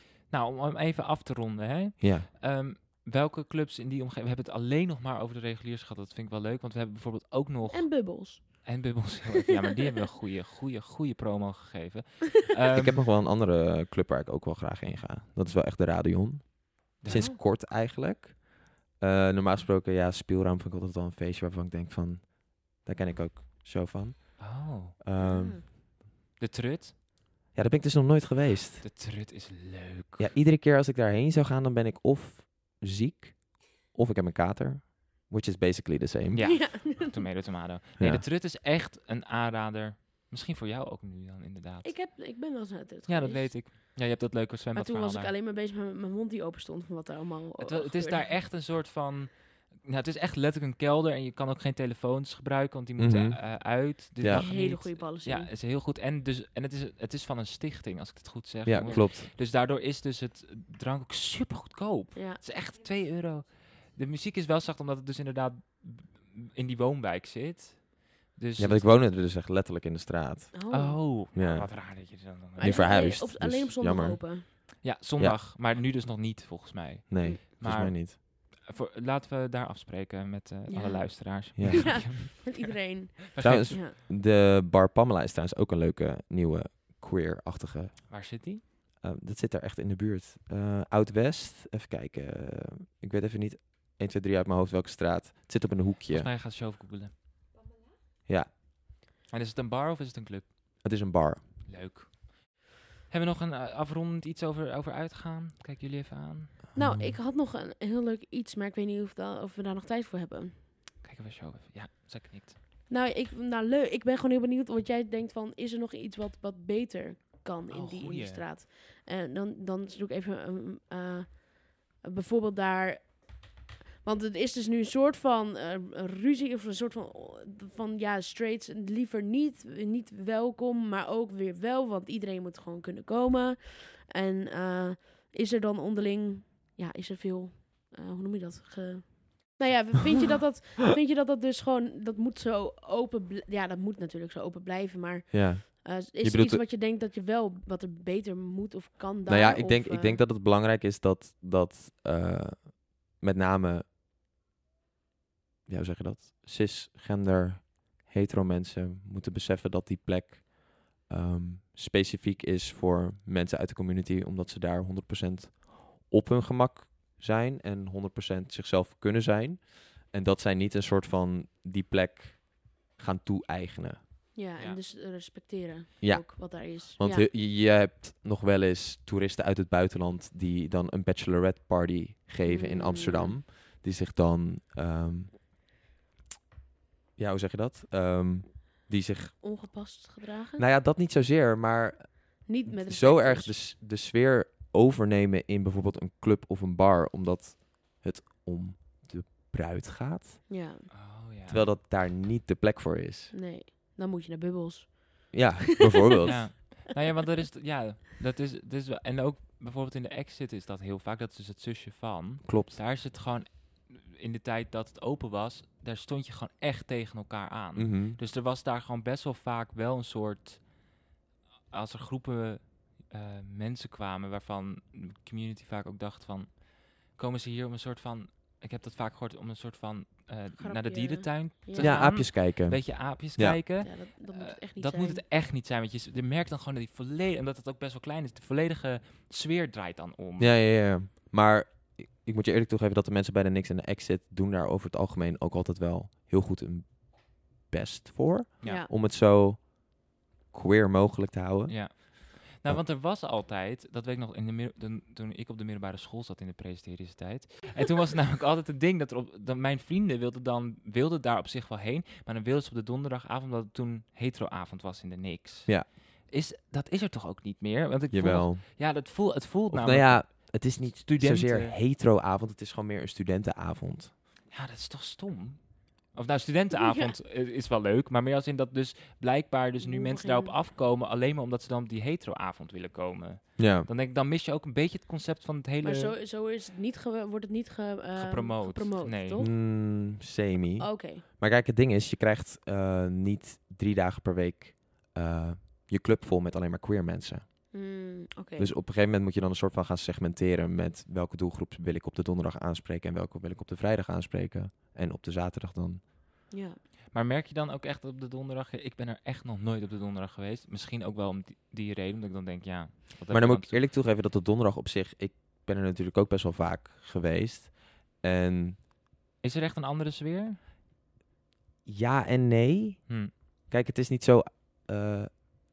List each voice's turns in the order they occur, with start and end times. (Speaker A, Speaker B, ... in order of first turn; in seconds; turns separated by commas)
Speaker A: 0.3-13.0, Speaker B: 2.0-2.3, Speaker C: 7.7-9.0, Speaker B: 12.7-25.6, Speaker A: 17.0-17.3, Speaker C: 17.1-17.4, Speaker A: 24.4-24.9, Speaker C: 25.2-25.6, Speaker A: 26.4-26.9, Speaker B: 27.5-28.9, Speaker A: 28.8-30.3, Speaker B: 30.2-36.6, Speaker A: 36.3-42.0, Speaker C: 36.4-37.2, Speaker B: 38.0-38.2, Speaker C: 41.8-43.9, Speaker A: 43.1-45.3, Speaker C: 44.7-48.3, Speaker A: 47.6-69.0, Speaker B: 53.0-54.5, Speaker C: 54.2-55.5, Speaker B: 58.6-59.3, Speaker C: 62.1-62.4, Speaker B: 68.6-70.6, Speaker C: 70.5-71.0, Speaker A: 70.7-73.0, Speaker B: 71.3-74.6, Speaker C: 72.6-74.4, Speaker A: 74.8-83.8, Speaker B: 77.1-78.2, Speaker C: 80.7-83.9, Speaker B: 81.5-82.0, Speaker B: 83.4-88.4, Speaker A: 88.1-88.6, Speaker B: 89.0-96.3, Speaker A: 96.1-97.1, Speaker A: 99.3-100.9, Speaker B: 100.8-101.4, Speaker A: 101.7-106.6, Speaker B: 106.7-107.1, Speaker C: 106.8-110.6, Speaker A: 111.0-112.5, Speaker C: 112.9-123.5, Speaker A: 117.7-118.5, Speaker C: 124.0-150.2, Speaker B: 145.3-146.6, Speaker B: 149.2-153.8, Speaker B: 155.7-174.0, Speaker C: 174.3-177.3, Speaker A: 174.6-174.8, Speaker B: 176.0-185.6, Speaker C: 182.4-183.4, Speaker B: 187.2-189.3, Speaker C: 189.4-190.6, Speaker B: 190.6-200.4, Speaker C: 192.4-193.6, Speaker C: 200.5-200.9, Speaker A: 200.9-201.7, Speaker B: 201.5-203.3, Speaker C: 203.3-205.5, Speaker B: 205.3-206.6, Speaker A: 206.2-220.9, Speaker B: 212.4-212.8, Speaker B: 217.7-218.2, Speaker A: 221.7-240.5, Speaker C: 230.6-232.2, Speaker B: 231.8-233.6, Speaker C: 233.8-235.2, Speaker B: 240.4-252.8, Speaker A: 248.6-248.9, Speaker C: 248.6-248.9, Speaker A: 251.7-271.8, Speaker B: 268.1-269.1, Speaker B: 269.7-274.1, Speaker A: 274.5-286.1, Speaker C: 276.7-277.1, Speaker C: 279.8-280.6, Speaker B: 283.6-283.9, Speaker C: 285.8-289.5, Speaker A: 288.1-289.4, Speaker B: 289.4-297.4, Speaker C: 290.8-291.2, Speaker C: 297.7-298.7, Speaker B: 298.6-306.0, Speaker C: 306.5-306.8, Speaker A: 307.1-313.8, Speaker B: 313.3-318.8, Speaker A: 319.4-320.6, Speaker B: 321.8-325.3